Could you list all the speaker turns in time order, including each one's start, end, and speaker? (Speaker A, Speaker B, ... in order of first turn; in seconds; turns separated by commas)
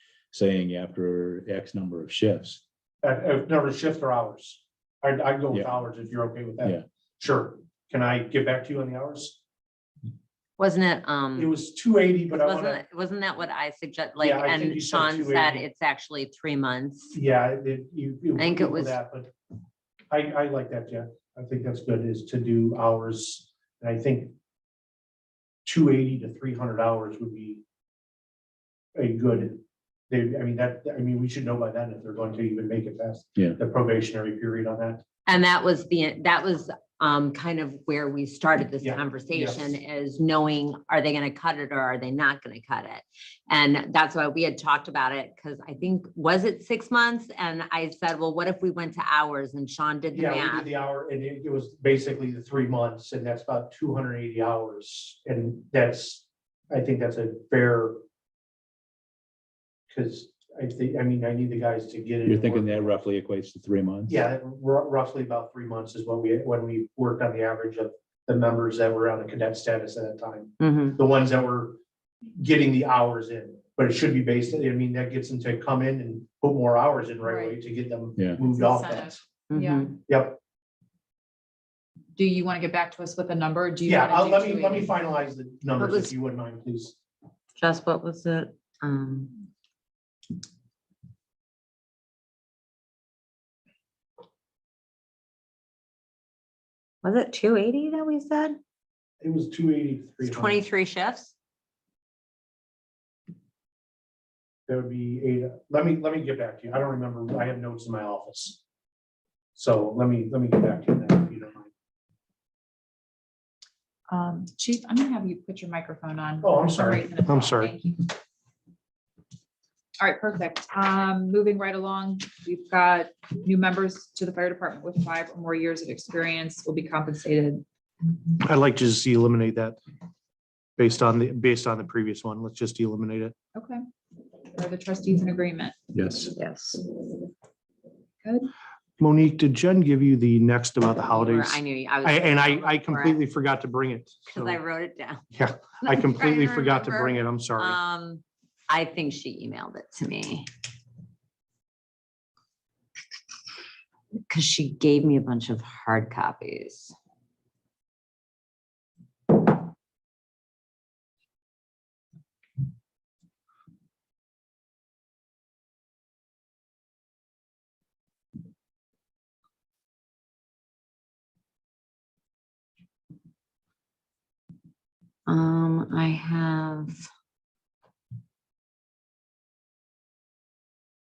Speaker A: 0.3-2.6, Speaker B: 3.0-9.4, Speaker C: 10.6-11.5, Speaker B: 11.3-12.8, Speaker C: 12.3-17.1, Speaker B: 14.2-15.6, Speaker B: 17.1-19.3, Speaker C: 18.4-19.0, Speaker B: 20.1-24.3, Speaker B: 25.6-27.6, Speaker B: 28.9-35.0, Speaker C: 35.2-50.7, Speaker B: 38.8-39.8, Speaker B: 50.1-58.0, Speaker B: 59.9-63.0, Speaker A: 62.2-64.2, Speaker B: 64.1-79.2, Speaker C: 70.6-71.0, Speaker D: 77.2-77.6, Speaker D: 78.4-79.9, Speaker C: 79.5-79.9, Speaker B: 80.1-80.4, Speaker D: 82.2-84.9, Speaker B: 83.8-87.0, Speaker C: 85.8-86.1, Speaker C: 87.6-89.3, Speaker C: 97.0-98.6, Speaker B: 99.2-100.7, Speaker C: 100.2-101.3, Speaker B: 104.7-108.6, Speaker B: 109.5-111.7, Speaker D: 114.1-118.1, Speaker B: 116.4-117.7, Speaker D: 120.0-127.6, Speaker B: 128.4-129.8, Speaker B: 130.8-133.3, Speaker D: 133.5-133.8, Speaker D: 134.5-135.7, Speaker A: 135.9-136.3, Speaker C: 136.3-136.8, Speaker D: 138.2-138.5, Speaker B: 139.0-144.6, Speaker C: 141.1-143.2, Speaker C: 144.3-145.3, Speaker B: 145.3-147.8, Speaker C: 145.8-150.5, Speaker C: 154.3-156.9, Speaker C: 175.3-177.1